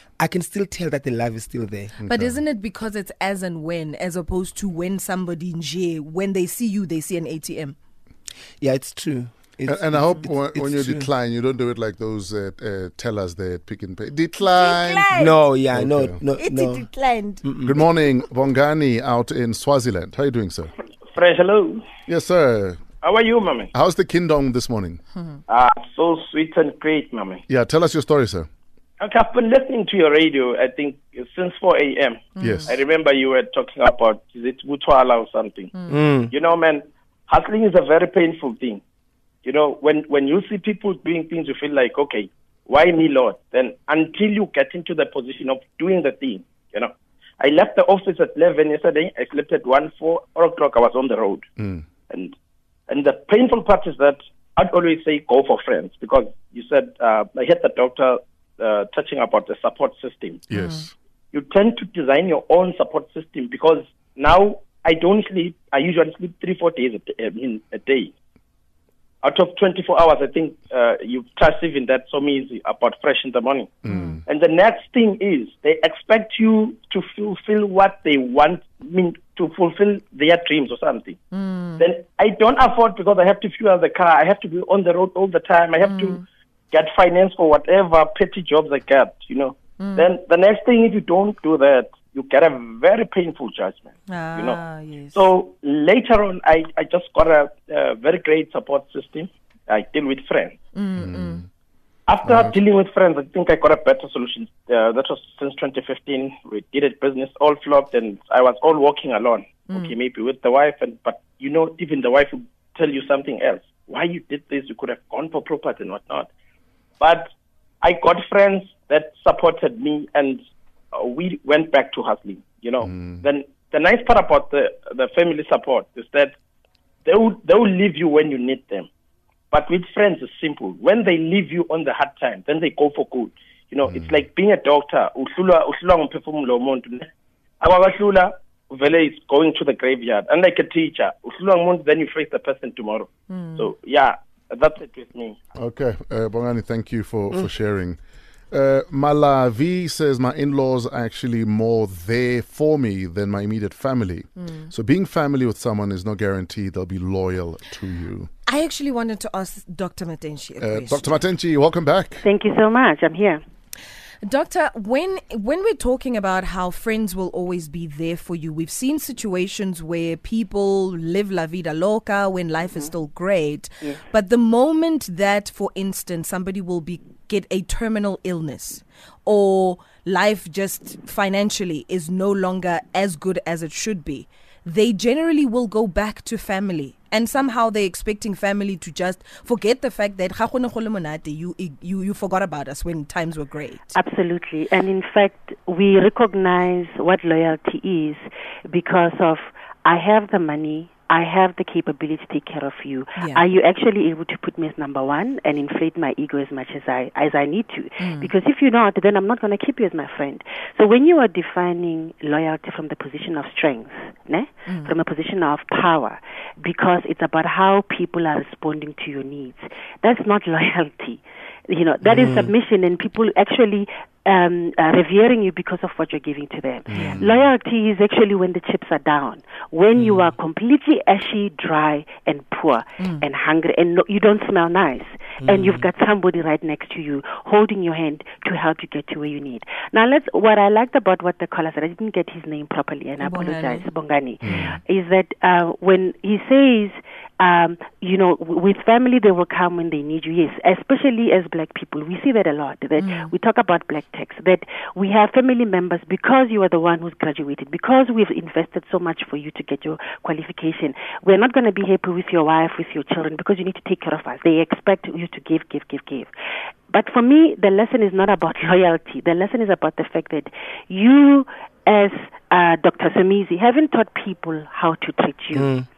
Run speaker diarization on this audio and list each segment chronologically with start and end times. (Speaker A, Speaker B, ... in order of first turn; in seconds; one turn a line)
Speaker A: 0.2-1.9
Speaker B: 2.0-7.8
Speaker C: 2.0-2.4
Speaker A: 8.6-11.1
Speaker C: 9.7-15.1
Speaker B: 14.4-15.4
Speaker A: 15.1-16.9
Speaker C: 15.7-16.2
Speaker B: 16.4-17.5
Speaker A: 17.4-17.8
Speaker C: 17.6-20.7
Speaker D: 21.1-21.9
Speaker C: 22.1-22.8
Speaker D: 23.0-23.7
Speaker C: 23.7-25.0
Speaker D: 25.5-27.4
Speaker C: 27.5-28.5
Speaker D: 29.0-35.7
Speaker B: 32.4-32.8
Speaker C: 32.4-32.8
Speaker A: 35.9-36.3
Speaker D: 36.3-38.8
Speaker D: 39.4-51.5
Speaker C: 51.6-51.9
Speaker D: 52.1-52.4
Speaker D: 52.9-60.5
Speaker C: 60.5-60.9
Speaker B: 60.5-60.8
Speaker D: 61.3-68.1
Speaker D: 69.2-81.2
Speaker C: 73.8-74.2
Speaker B: 81.3-81.9
Speaker D: 81.8-86.2
Speaker B: 85.8-86.2
Speaker D: 86.7-94.6
Speaker B: 89.8-90.1
Speaker B: 94.1-95.3
Speaker D: 95.1-100.6
Speaker B: 100.7-101.5
Speaker C: 101.0-101.5
Speaker D: 102.1-116.3
Speaker C: 102.2-102.6
Speaker B: 109.7-109.9
Speaker D: 117.0-120.4
Speaker D: 120.9-126.3
Speaker C: 122.8-123.2
Speaker D: 127.0-128.9
Speaker D: 129.5-137.1
Speaker C: 133.9-134.2
Speaker D: 137.6-145.4
Speaker B: 143.3-143.7
Speaker C: 145.6-148.0
Speaker C: 148.5-158.3
Speaker B: 154.4-154.7
Speaker B: 158.5-161.1
Speaker C: 160.6-162.3
Speaker E: 162.2-163.4
Speaker B: 164.2-194.0
Speaker E: 193.9-266.3
Speaker B: 203.2-203.4
Speaker B: 208.0-208.3
Speaker B: 214.7-214.9
Speaker A: 222.0-222.5
Speaker C: 226.9-227.5
Speaker B: 227.0-227.2
Speaker A: 230.0-230.2
Speaker A: 235.4-235.9
Speaker B: 243.2-243.9
Speaker C: 244.4-244.8
Speaker B: 253.0-253.3
Speaker E: 266.9-275.8
Speaker A: 275.5-275.9